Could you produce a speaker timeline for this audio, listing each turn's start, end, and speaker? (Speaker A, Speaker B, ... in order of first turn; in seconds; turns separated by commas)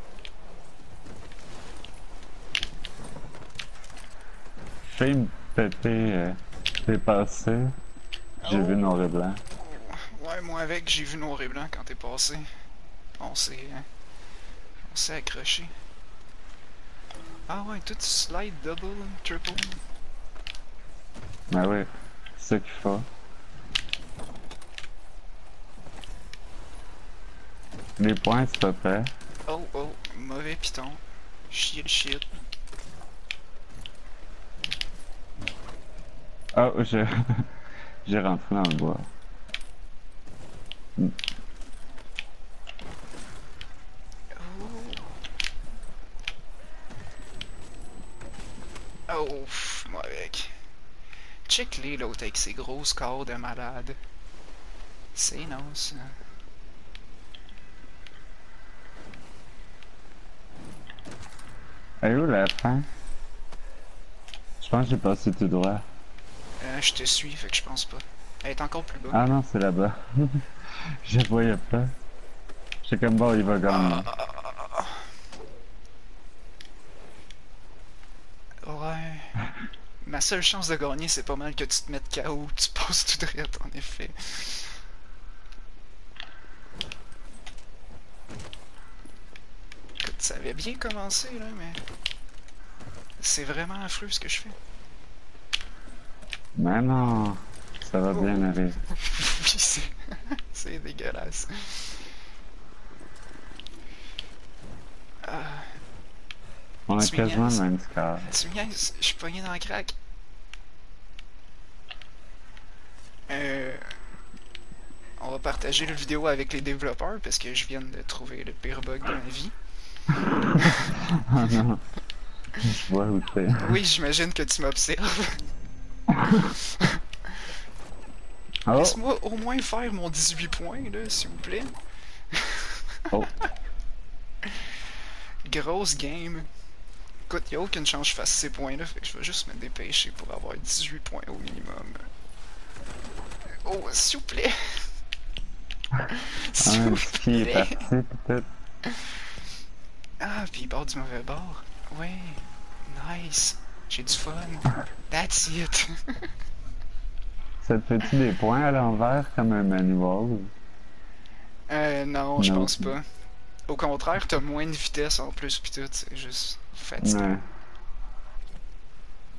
Speaker A: 4.8-7.7, Speaker B: 8.4-8.8, Speaker A: 8.4-9.4, Speaker B: 9.6-12.5, Speaker B: 13.2-13.8, Speaker B: 14.9-15.7, Speaker B: 17.5-19.8, Speaker A: 21.5-23.1, Speaker A: 28.0-29.1, Speaker B: 29.5-32.3, Speaker A: 36.5-37.5, Speaker A: 38.0-39.1, Speaker B: 44.4-45.1, Speaker B: 49.1-50.5, Speaker B: 51.5-54.0, Speaker B: 55.1-56.1, Speaker A: 62.0-62.9, Speaker A: 64.6-65.8, Speaker B: 66.6-69.3, Speaker A: 69.1-70.5, Speaker A: 71.0-71.9, Speaker A: 72.8-74.1, Speaker B: 73.7-75.0, Speaker B: 78.6-79.3, Speaker B: 80.0-84.8, Speaker B: 90.0-91.8, Speaker B: 93.2-94.6, Speaker A: 96.5-98.8, Speaker B: 98.1-102.0, Speaker B: 105.2-105.7, Speaker A: 106.9-108.3, Speaker B: 107.0-107.6, Speaker B: 108.2-109.9, Speaker B: 113.3-113.8, Speaker B: 115.2-119.5, Speaker A: 120.1-121.8, Speaker B: 120.6-120.9, Speaker A: 122.6-123.8, Speaker B: 123.6-125.4, Speaker A: 126.1-126.5, Speaker B: 126.6-127.0, Speaker A: 128.7-129.0, Speaker B: 128.7-131.7, Speaker B: 132.3-133.4, Speaker B: 135.4-136.5, Speaker B: 137.3-142.1, Speaker B: 143.6-144.8, Speaker B: 146.1-147.9, Speaker A: 146.6-148.4, Speaker B: 150.2-156.3, Speaker A: 157.6-160.5, Speaker B: 161.7-163.0, Speaker A: 162.4-162.9, Speaker B: 163.7-167.3, Speaker A: 167.0-167.4